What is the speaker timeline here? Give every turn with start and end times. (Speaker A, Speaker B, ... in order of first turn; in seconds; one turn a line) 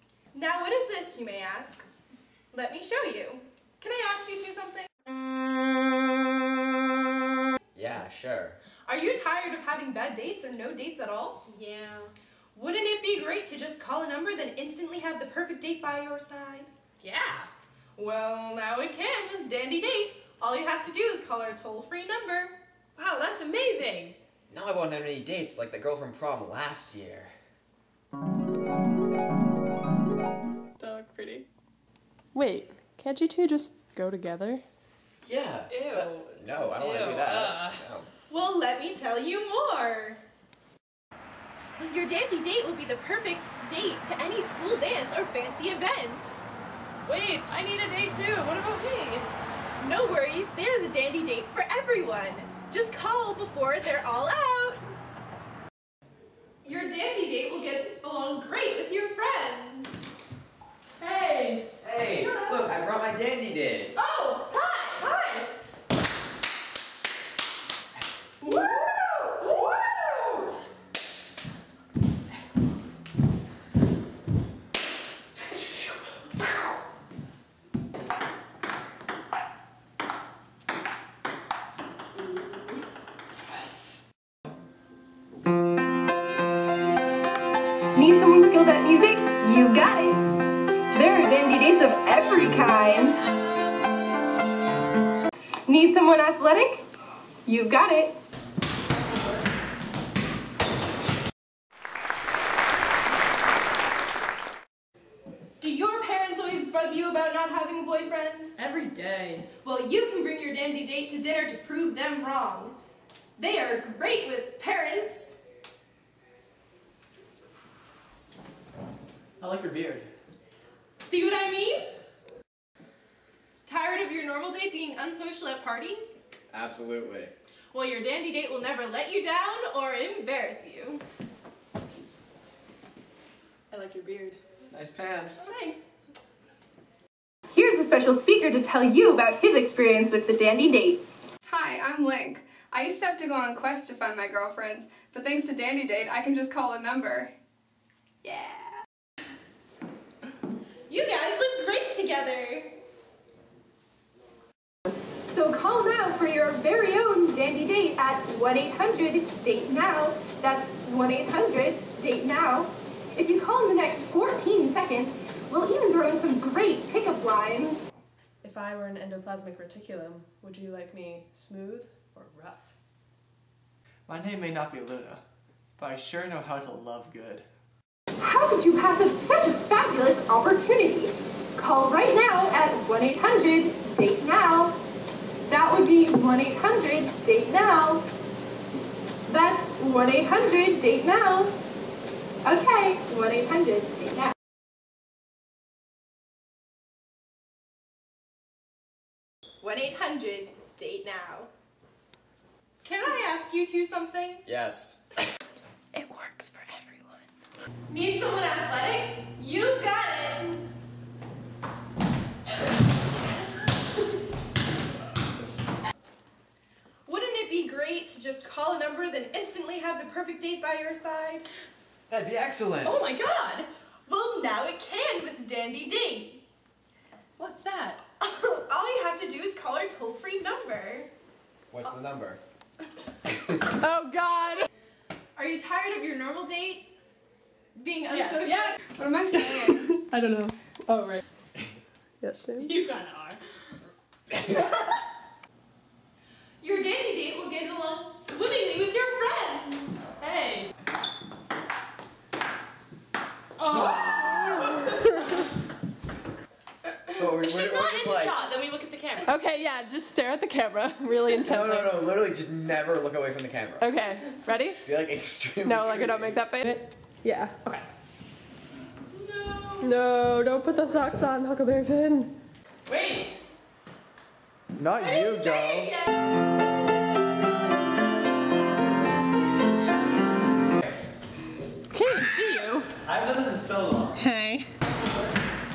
Speaker A: 0.3-1.8
Speaker A: 2.5-4.9
Speaker B: 7.7-8.6
Speaker A: 8.9-11.4
Speaker C: 11.5-12.1
Speaker A: 12.5-16.7
Speaker C: 17.0-17.5
Speaker A: 17.9-22.6
Speaker C: 23.0-24.1
Speaker B: 24.5-27.3
Speaker D: 30.8-31.5
Speaker D: 32.3-34.6
Speaker B: 35.2-38.1
Speaker C: 35.7-37.8
Speaker A: 38.3-40.2
Speaker A: 41.8-46.4
Speaker C: 47.0-49.2
Speaker A: 49.8-54.8
Speaker A: 56.6-60.0
Speaker C: 61.0-61.7
Speaker B: 61.8-63.9
Speaker C: 64.0-65.1
Speaker A: 65.0-65.4
Speaker C: 68.4-70.2
Speaker A: 68.4-68.8
Speaker A: 87.9-90.2
Speaker A: 90.9-93.2
Speaker A: 95.7-96.8
Speaker A: 97.5-98.1
Speaker A: 105.6-108.5
Speaker C: 108.6-109.5
Speaker A: 109.6-112.8
Speaker A: 113.4-115.3
Speaker E: 119.4-120.1
Speaker A: 121.0-121.9
Speaker A: 123.7-126.2
Speaker B: 126.5-127.3
Speaker A: 127.7-131.0
Speaker D: 133.7-134.4
Speaker B: 134.7-135.5
Speaker A: 135.3-135.9
Speaker A: 137.5-141.2
Speaker F: 141.4-147.3
Speaker F: 148.2-148.8
Speaker A: 150.9-152.8
Speaker A: 155.2-167.8
Speaker D: 168.4-172.7
Speaker E: 174.1-175.2
Speaker E: 175.8-177.5
Speaker A: 178.2-184.8
Speaker A: 185.5-188.0
Speaker A: 189.3-191.5
Speaker A: 192.4-194.3
Speaker A: 199.6-201.5
Speaker A: 202.8-204.4
Speaker B: 204.4-205.0
Speaker D: 205.9-206.8
Speaker A: 207.9-210.7
Speaker A: 217.1-221.4
Speaker B: 222.1-223.0
Speaker C: 222.8-223.7
Speaker A: 224.1-226.4
Speaker C: 227.4-228.0
Speaker A: 228.2-231.1
Speaker B: 231.7-232.4
Speaker C: 233.9-234.7
Speaker A: 235.3-236.9
Speaker A: 237.8-238.8
Speaker F: 238.7-239.9
Speaker D: 239.3-241.2
Speaker D: 242.2-242.7
Speaker C: 242.6-243.4
Speaker A: 246.6-250.0
Speaker C: 250.2-250.7
Speaker C: 253.6-255.1
Speaker B: 257.0-258.4
Speaker C: 257.4-259.3
Speaker D: 259.2-261.9
Speaker B: 261.4-263.9
Speaker D: 263.8-264.8
Speaker B: 264.8-266.4
Speaker D: 265.6-267.6
Speaker C: 269.1-269.9
Speaker D: 269.8-272.3
Speaker C: 272.9-273.4
Speaker B: 274.9-275.8
Speaker D: 281.9-282.4
Speaker C: 282.0-282.9
Speaker E: 283.1-284.1